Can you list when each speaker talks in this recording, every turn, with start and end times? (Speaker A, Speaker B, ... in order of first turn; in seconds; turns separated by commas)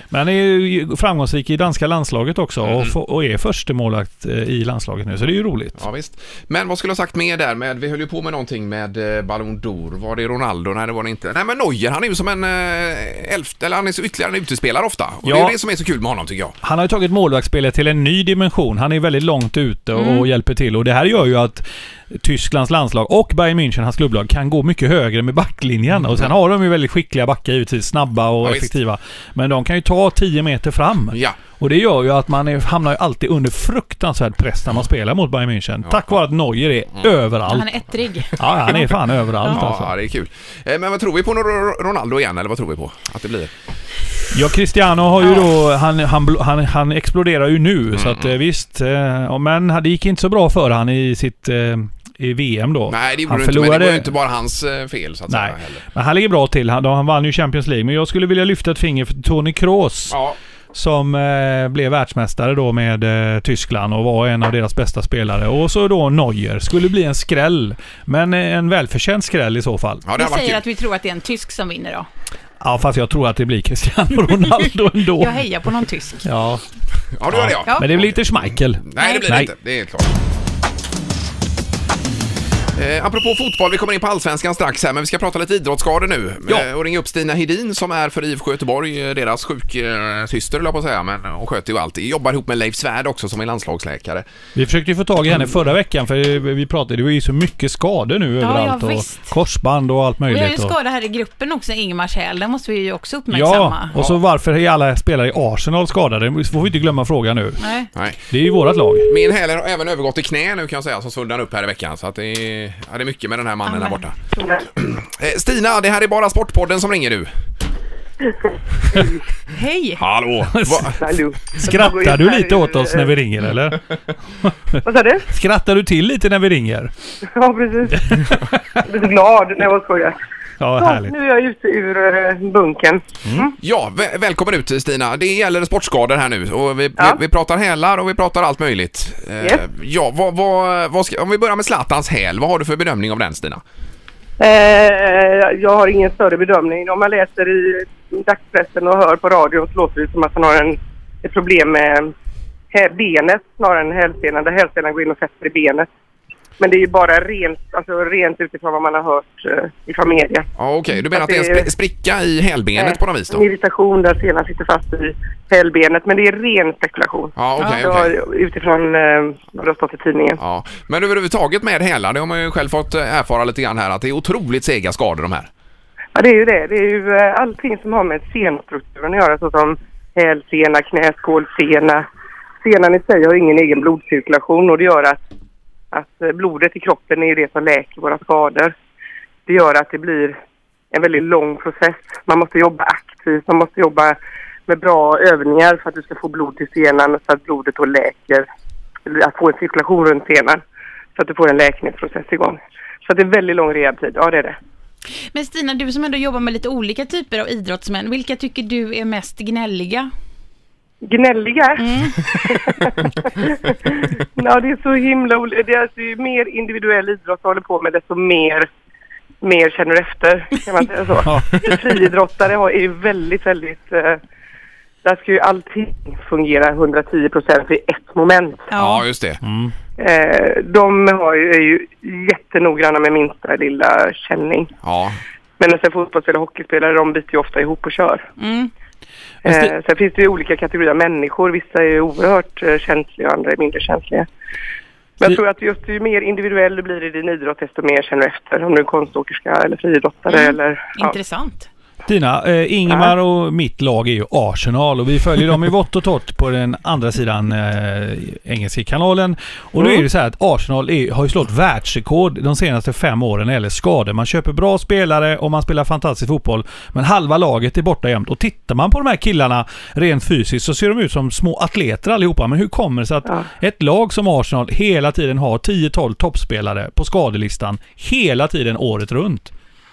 Speaker A: 0.1-5.8, Speaker B: 2.6-2.9, Speaker B: 5.8-16.6, Speaker A: 15.2-15.6, Speaker A: 16.6-37.7, Speaker C: 19.9-20.3, Speaker B: 28.4-28.7, Speaker B: 31.1-31.4, Speaker C: 37.5-38.9, Speaker A: 38.4-39.9, Speaker B: 39.4-43.5, Speaker A: 44.3-54.1, Speaker B: 47.9-48.3, Speaker B: 52.9-55.8, Speaker A: 55.3-60.2, Speaker B: 60.1-60.4, Speaker A: 60.7-70.0, Speaker B: 70.0-70.6, Speaker C: 70.2-72.1, Speaker A: 72.6-75.4, Speaker C: 75.2-76.2, Speaker A: 76.2-76.6, Speaker B: 77.1-78.2, Speaker A: 77.3-79.5, Speaker B: 78.8-80.2, Speaker C: 79.0-79.2, Speaker B: 82.7-94.2, Speaker A: 94.5-100.7, Speaker C: 98.4-99.3, Speaker C: 100.3-103.9, Speaker A: 103.3-107.6, Speaker C: 107.6-107.9, Speaker B: 107.9-108.2, Speaker A: 108.3-109.1, Speaker B: 109.1-114.2, Speaker C: 113.7-114.5, Speaker B: 114.7-117.3, Speaker C: 119.5-120.0, Speaker B: 120.0-121.0, Speaker A: 120.5-121.0, Speaker D: 121.0-123.1, Speaker A: 121.5-123.9, Speaker A: 124.4-126.9, Speaker D: 124.8-125.2, Speaker D: 127.3-130.2, Speaker A: 128.0-128.8, Speaker A: 130.6-131.1, Speaker D: 130.8-133.5, Speaker A: 133.2-133.5, Speaker B: 133.6-143.6, Speaker D: 144.4-152.1, Speaker D: 152.7-155.9, Speaker D: 156.6-160.5, Speaker B: 160.6-163.4, Speaker D: 161.1-161.7, Speaker D: 162.8-170.4, Speaker B: 167.3-168.2, Speaker C: 167.6-167.8, Speaker B: 170.4-175.5, Speaker D: 176.1-182.0, Speaker D: 182.6-185.2, Speaker D: 185.9-188.7, Speaker D: 189.4-190.4, Speaker D: 190.9-194.2, Speaker D: 194.7-198.4, Speaker D: 199.1-200.6, Speaker D: 201.2-204.6, Speaker C: 205.3-210.1, Speaker D: 211.0-218.7, Speaker C: 211.8-212.3, Speaker D: 219.4-224.2, Speaker A: 221.2-221.7, Speaker D: 225.0-228.7, Speaker C: 228.7-229.0, Speaker B: 228.7-229.4, Speaker A: 229.4-229.7, Speaker D: 230.0-234.7, Speaker B: 234.8-235.2, Speaker D: 235.6-238.3, Speaker C: 238.4-238.7, Speaker A: 239.4-239.7, Speaker D: 239.4-244.3, Speaker D: 245.2-251.1, Speaker C: 250.3-251.7, Speaker A: 252.1-279.5